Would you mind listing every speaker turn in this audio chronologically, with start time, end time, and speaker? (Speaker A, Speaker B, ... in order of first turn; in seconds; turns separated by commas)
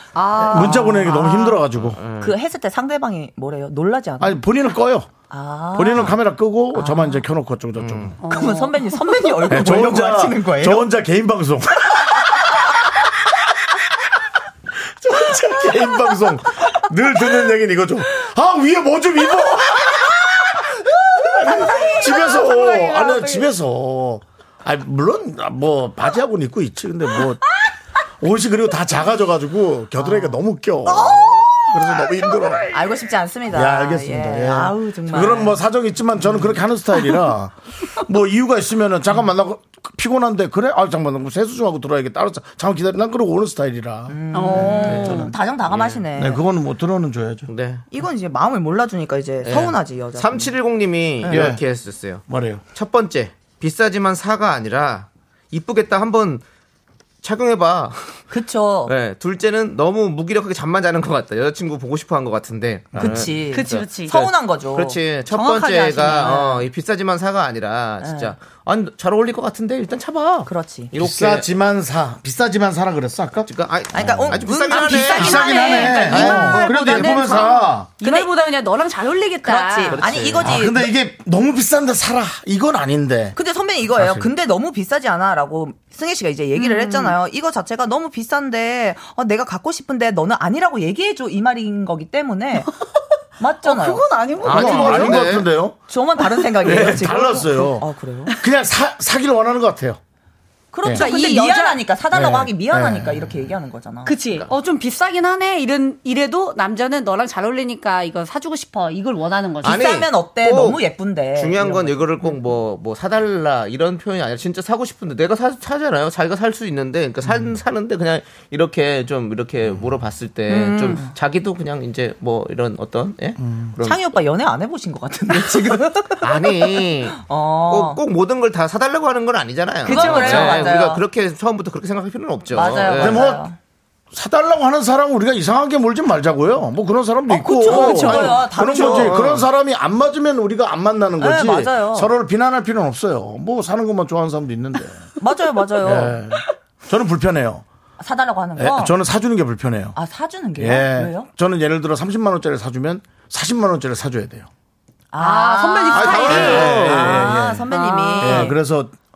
Speaker A: 0.1-1.1, Speaker B: 0.4-2.0, Speaker C: 0.4-1.6, Speaker D: 1.7-2.4, Speaker C: 2.2-4.4, Speaker B: 4.2-5.2, Speaker C: 5.3-6.2, Speaker B: 5.7-8.2, Speaker C: 6.7-7.2, Speaker D: 7.8-8.2, Speaker A: 8.2-9.4, Speaker C: 8.3-10.9, Speaker B: 9.5-12.5, Speaker B: 15.0-27.4, Speaker C: 21.2-21.9, Speaker A: 21.4-23.5, Speaker B: 28.2-32.8, Speaker C: 30.0-30.4, Speaker A: 30.9-32.5, Speaker C: 32.7-35.6, Speaker B: 33.5-45.3, Speaker C: 36.2-36.5, Speaker C: 44.1-46.4, Speaker A: 44.3-45.3, Speaker D: 44.7-46.0, Speaker B: 46.2-47.5, Speaker D: 47.5-47.8, Speaker C: 47.9-50.5, Speaker D: 49.4-52.2, Speaker C: 51.2-51.5, Speaker B: 51.3-51.6, Speaker B: 52.3-52.6, Speaker D: 52.7-56.4, Speaker D: 57.2-58.2, Speaker C: 58.3-58.9, Speaker D: 58.9-71.5, Speaker B: 63.0-63.4, Speaker C: 63.0-66.6, Speaker A: 63.5-64.2, Speaker A: 65.4-66.4, Speaker C: 68.0-68.3, Speaker C: 70.5-70.9, Speaker B: 70.9-78.0, Speaker D: 73.5-77.5, Speaker C: 73.9-76.7, Speaker A: 74.8-80.0, Speaker C: 78.0-78.3, Speaker C: 79.4-80.9, Speaker D: 79.9-80.6, Speaker B: 80.4-83.4, Speaker C: 83.3-92.7, Speaker B: 83.9-84.3, Speaker A: 86.5-87.2, Speaker C: 93.4-94.1, Speaker A: 93.6-95.3, Speaker B: 94.4-95.8, Speaker D: 94.4-95.5, Speaker C: 95.9-98.3, Speaker B: 96.6-100.0, Speaker D: 96.7-97.0, Speaker C: 100.7-104.2, Speaker A: 100.9-101.9, Speaker B: 102.1-103.5, Speaker A: 104.1-109.8, Speaker C: 109.6-111.9, Speaker D: 109.6-110.8, Speaker D: 111.3-124.0, Speaker A: 120.5-121.0, Speaker B: 123.4-123.7, Speaker C: 123.8-128.0, Speaker D: 126.2-133.3, Speaker C: 129.8-131.0, Speaker A: 129.9-130.6, Speaker C: 132.5-133.6, Speaker B: 133.0-133.4, Speaker B: 134.1-145.1, Speaker C: 137.3-139.3, Speaker A: 137.7-138.4, Speaker D: 137.7-139.5, Speaker C: 141.2-142.1, Speaker C: 145.2-146.2, Speaker B: 145.8-147.7, Speaker C: 148.0-148.9, Speaker B: 148.6-150.0, Speaker C: 150.0-151.3, Speaker B: 150.6-154.5, Speaker C: 155.1-158.6, Speaker A: 155.2-158.5, Speaker D: 155.9-157.3, Speaker B: 156.2-157.7, Speaker B: 158.2-158.9